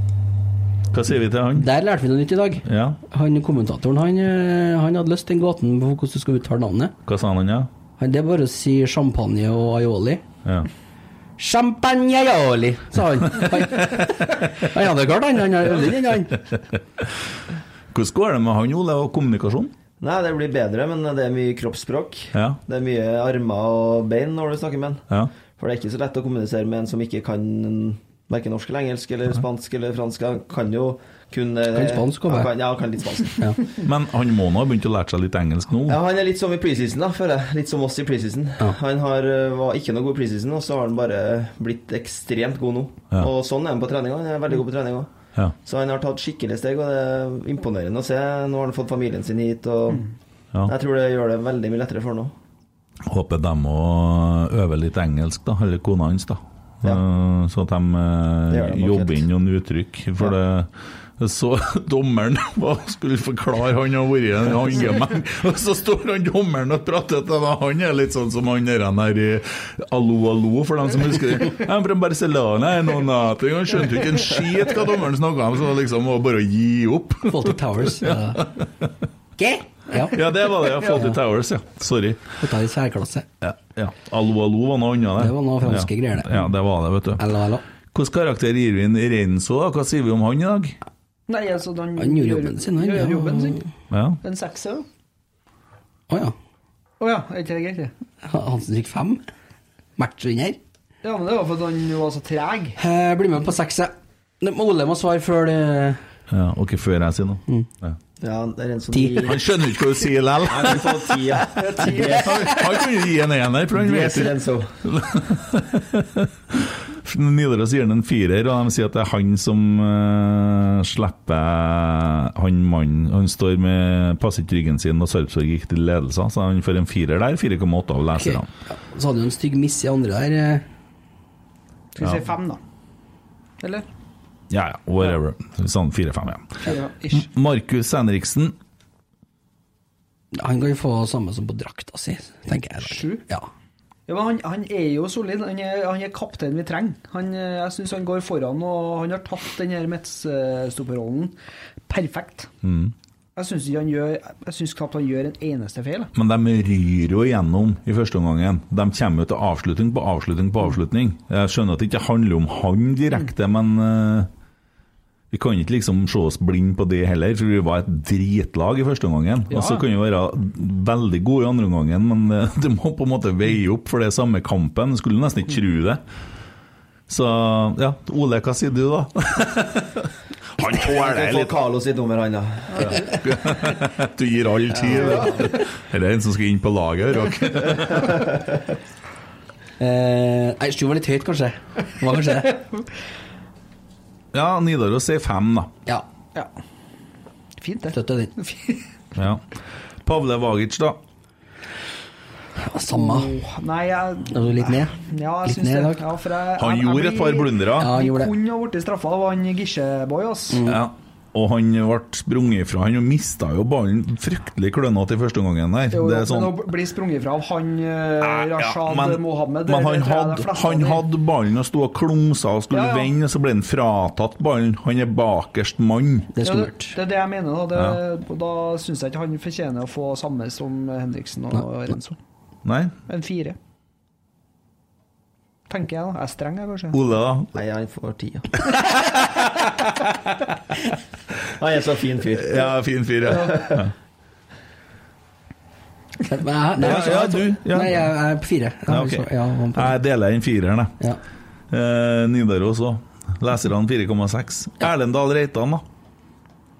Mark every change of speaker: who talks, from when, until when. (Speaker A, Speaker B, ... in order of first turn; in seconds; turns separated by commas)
Speaker A: 0.9-1.7, Speaker B: 1.6-7.0, Speaker A: 2.6-3.0, Speaker A: 7.0-7.7, Speaker B: 8.0-10.2, Speaker B: 11.4-16.5, Speaker A: 17.9-19.7, Speaker C: 20.0-25.0, Speaker A: 22.3-22.6, Speaker C: 25.6-33.5, Speaker B: 31.7-32.5, Speaker A: 33.8-36.0, Speaker C: 35.9-45.1, Speaker C: 45.6-50.0, Speaker C: 50.6-52.3, Speaker A: 53.0-78.9, Speaker C: 58.5-59.2, Speaker B: 77.3-78.5, Speaker B: 79.4-80.3, Speaker A: 80.1-82.3, Speaker B: 82.4-83.3, Speaker A: 83.4-87.2, Speaker B: 85.2-86.5, Speaker B: 87.2-87.6, Speaker A: 87.9-90.8, Speaker D: 91.3-93.6, Speaker B: 92.0-93.6, Speaker A: 93.9-94.2, Speaker D: 94.2-94.8, Speaker B: 96.1-96.3, Speaker D: 97.0-97.9, Speaker B: 98.2-99.2, Speaker B: 100.0-100.6, Speaker D: 101.0-102.8, Speaker B: 102.8-106.0, Speaker A: 106.3-108.0, Speaker C: 108.2-109.4, Speaker B: 108.9-109.3, Speaker A: 109.2-111.4, Speaker C: 110.5-112.5, Speaker D: 111.5-112.5, Speaker A: 112.2-128.5, Speaker C: 113.7-114.7, Speaker B: 128.2-130.6, Speaker D: 131.9-132.6, Speaker D: 133.6-133.8, Speaker A: 134.5-138.6, Speaker D: 136.6-137.3, Speaker B: 140.3-143.5, Speaker D: 142.8-143.2, Speaker D: 144.1-151.3, Speaker D: 151.9-152.5, Speaker A: 152.6-152.9, Speaker D: 153.3-156.1, Speaker A: 156.1-164.3, Speaker A: 165.3-176.0, Speaker D: 169.5-169.8, Speaker A: 177.1-181.6, Speaker C: 180.8-182.9, Speaker A: 182.8-188.2, Speaker C: 184.8-185.2, Speaker D: 185.1-185.4, Speaker B: 189.8-192.7, Speaker A: 194.3-195.7, Speaker D: 197.6-198.8, Speaker B: 197.9-198.3, Speaker A: 199.2-199.4, Speaker A: 200.0-201.0, Speaker B: 202.6-203.3, Speaker D: 202.9-210.7, Speaker B: 204.3-206.0, Speaker A: 206.6-207.9, Speaker B: 207.8-208.3, Speaker B: 210.5-210.8, Speaker A: 210.6-216.6, Speaker D: 215.9-221.0, Speaker A: 218.2-226.3, Speaker D: 222.7-223.1, Speaker B: 226.3-226.9, Speaker D: 226.4-232.2, Speaker A: 232.7-232.9, Speaker D: 233.1-233.6, Speaker D: 235.7-237.0, Speaker A: 236.9-237.5, Speaker C: 237.5-238.5, Speaker A: 238.7-240.3, Speaker C: 241.6-242.7, Speaker A: 242.3-243.9, Speaker C: 243.4-243.8, Speaker B: 246.3-249.9, Speaker A: 246.8-248.1, Speaker A: 248.9-251.0, Speaker A: 251.7-255.8